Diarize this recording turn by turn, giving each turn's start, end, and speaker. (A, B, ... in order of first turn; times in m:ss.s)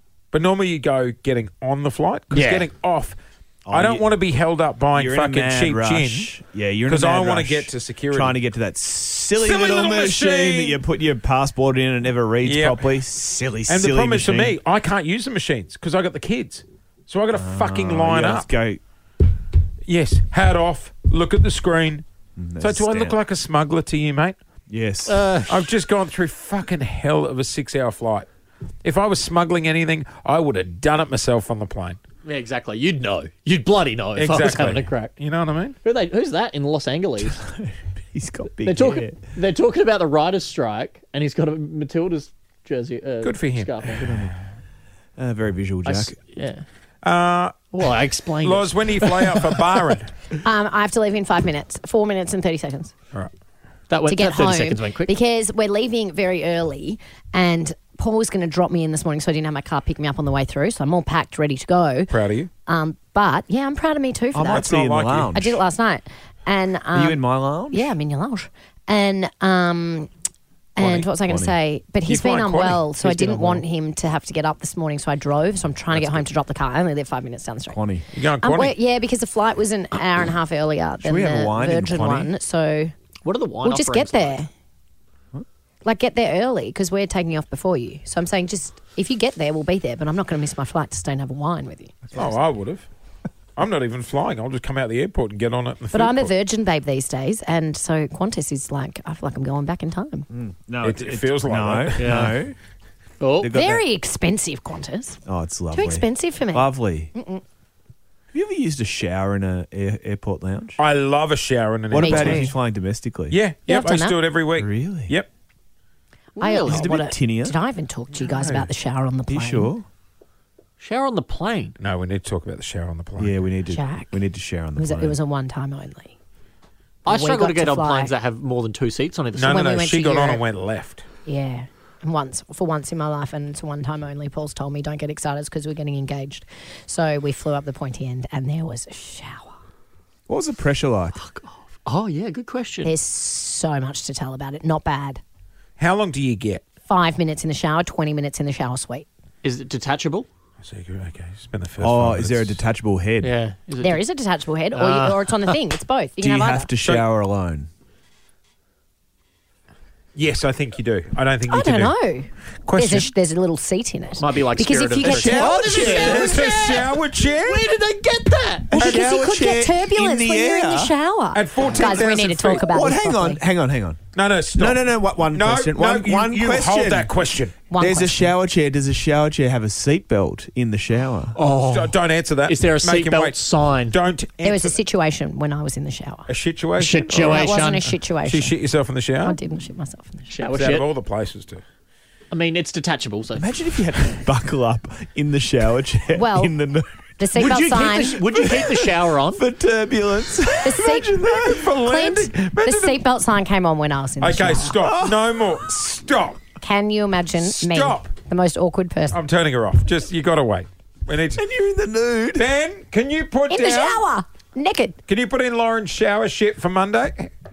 0:00.3-0:03.2 A
0:02.3-0:02.7 B
0:03.7-0:04.1 C
0:03.7-0:06.3 A
0:04.9-0:14.6 C
0:06.9-0:08.4 A
0:09.4-0:10.8 A
0:12.4-0:13.0 A
0:13.7-0:18.5 A
0:17.3-0:18.8 C
0:19.8-0:22.0 A
0:22.4-0:23.2 C
0:22.6-0:24.4 A
0:24.7-0:25.3 C
0:25.1-0:25.7 B
0:25.5-0:28.3 A
0:28.8-0:32.0 A
0:32.2-0:35.1 B
0:34.2-0:35.8 A
0:35.8-0:37.4 B
0:37.2-0:39.2 C
0:38.6-0:44.3 B
0:43.2-0:43.7 A
0:43.9-0:44.4 C
0:45.2-0:46.1 C
0:45.8-0:46.6 B
0:47.0-0:47.6 A
0:47.7-0:49.8 B
0:48.4-0:50.1 A
0:50.4-0:52.9 D
0:53.9-0:55.1 B
0:54.1-1:02.1 D
1:02.1-1:02.5 A
1:02.6-1:04.7 D
1:04.3-1:05.6 C
1:04.5-1:05.4 A
1:05.3-1:10.1 D
1:06.9-1:07.9 C
1:10.8-1:17.8 D
1:10.8-1:11.6 C
1:12.0-1:12.8 A
1:13.0-1:13.6 B
1:15.9-1:16.3 C
1:17.7-1:18.0 C
1:18.1-1:18.7 A
1:18.4-1:22.9 D
1:21.0-1:22.3 C
1:23.2-1:24.4 B
1:23.6-1:24.5 D
1:25.8-1:31.9 D
1:32.1-1:32.4 C
1:32.1-1:32.9 A
1:33.6-1:36.3 A
1:35.9-1:40.3 D
1:40.3-1:42.6 C
1:40.8-1:42.2 A
1:42.0-1:42.4 B
1:43.2-1:43.5 B
1:43.4-1:43.8 C
1:43.5-1:47.4 D
1:45.2-1:47.1 C
1:48.3-1:50.8 C
1:50.8-1:52.5 A
1:51.9-1:53.4 C
1:52.0-1:52.5 D
1:53.3-1:55.3 A
1:53.7-1:54.2 D
1:54.6-1:55.1 C
1:56.4-1:56.9 B
1:56.4-1:59.7 D
1:56.6-1:57.6 C
1:58.3-1:58.7 C
1:59.3-1:59.8 C
2:00.8-2:01.7 B
2:01.8-2:03.4 A
2:03.2-2:05.2 C
2:03.7-2:04.2 D
2:04.8-2:06.1 D
2:07.0-2:08.1 D
2:07.0-2:09.9 B
2:09.4-2:11.0 A
2:09.4-2:10.4 D
2:11.2-2:19.6 D
2:20.3-2:21.2 C
2:21.1-2:22.9 B
2:22.8-2:25.2 D
2:25.8-2:26.6 A
2:26.9-2:29.1 D
2:29.4-2:30.3 B
2:30.6-2:32.6 A
2:31.8-2:33.3 C
2:33.2-2:34.0 B
2:33.8-2:36.7 D
2:34.7-2:35.6 B
2:36.2-2:37.7 C
2:40.1-2:41.9 A
2:41.5-2:45.9 D
2:42.6-2:43.1 A
2:44.2-2:48.8 B
2:45.0-2:46.4 C
2:45.6-2:47.7 A
2:48.7-2:50.9 C
2:48.8-2:53.4 D
2:48.8-2:49.1 A
2:51.3-2:52.6 A
2:52.6-2:54.0 C
2:54.1-2:57.6 A
2:54.5-2:57.1 C
2:57.7-2:58.3 D
2:57.8-3:01.4 C
3:01.3-3:04.0 B
3:01.6-3:04.7 A
3:04.4-3:06.3 D
3:06.3-3:07.6 A
3:06.8-3:07.9 B
3:07.1-3:08.6 D
3:08.2-3:09.4 A
3:09.2-3:10.3 D
3:10.3-3:10.9 B
3:10.5-3:11.6 A
3:12.3-3:13.5 B
3:13.4-3:16.9 C
3:16.1-3:16.5 D
3:17.2-3:18.2 D
3:17.3-3:19.4 B
3:18.4-3:21.8 C
3:20.6-3:24.8 D
3:21.5-3:23.0 A
3:24.2-3:26.4 A
3:24.8-3:25.3 C
3:26.6-3:29.2 D
3:27.4-3:28.1 A
3:29.1-3:31.4 A
3:31.3-3:32.5 C
3:32.4-3:34.0 A
3:33.5-3:35.0 D
3:35.1-3:37.3 A